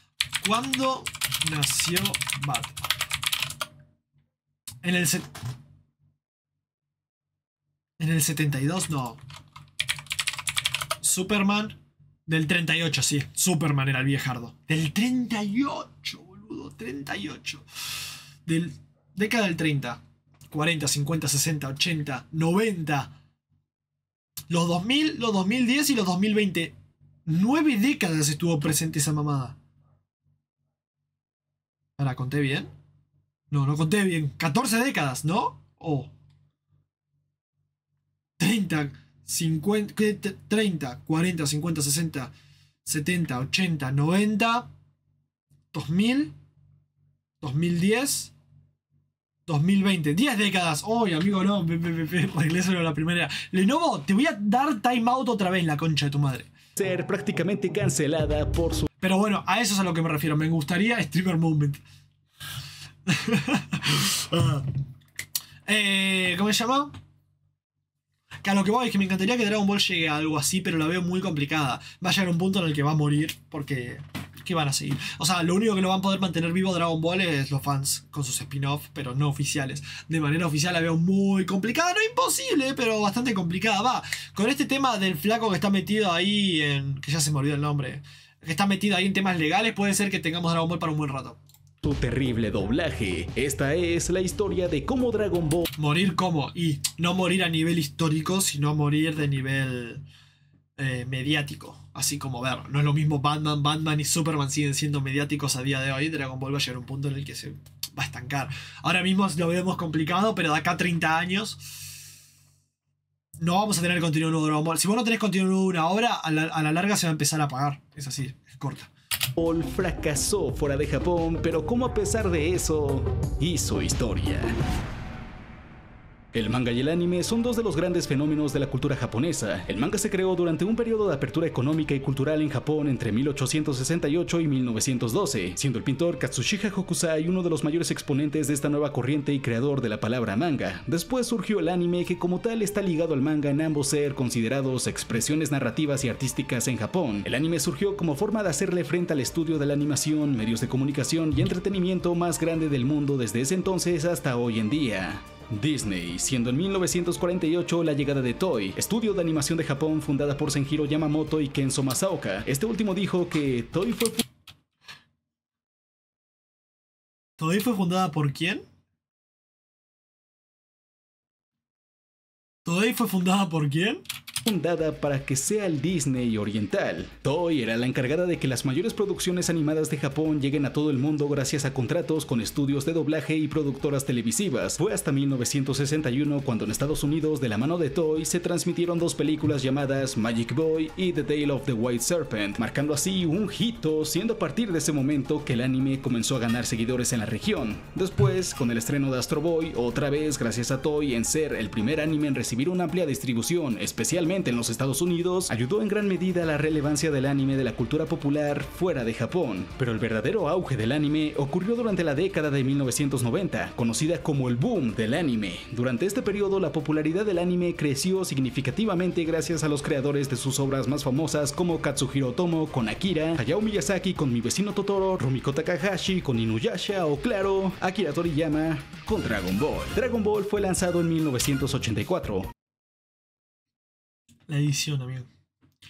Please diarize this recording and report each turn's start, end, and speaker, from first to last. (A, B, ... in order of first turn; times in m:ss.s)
0:00.4-0:02.8 A
0:04.8-0:05.3 A
0:08.0-0:09.2 A
0:11.0-0:17.6 A
0:18.4-0:23.1 A
0:24.5-0:26.8 A
0:27.2-0:29.6 A
0:32.0-0:32.7 A
0:33.5-0:36.1 A
0:38.4-0:42.3 A
0:42.8-0:44.7 A
0:45.7-0:46.3 A
0:47.4-0:48.3 A
0:49.5-0:56.5 A
0:56.8-0:58.9 B
0:59.0-1:01.8 A
1:03.1-1:04.7 A
1:05.6-1:07.0 A
1:08.4-1:31.4 A
1:31.8-1:35.6 B
1:35.8-1:40.0 A
1:40.8-1:51.6 A
1:53.4-1:58.9 A
1:59.4-2:04.6 B
2:06.3-2:44.2 B
2:47.4-2:48.6 A
2:52.6-2:54.0 A
2:54.4-3:52.5 B
3:54.5-3:55.3 A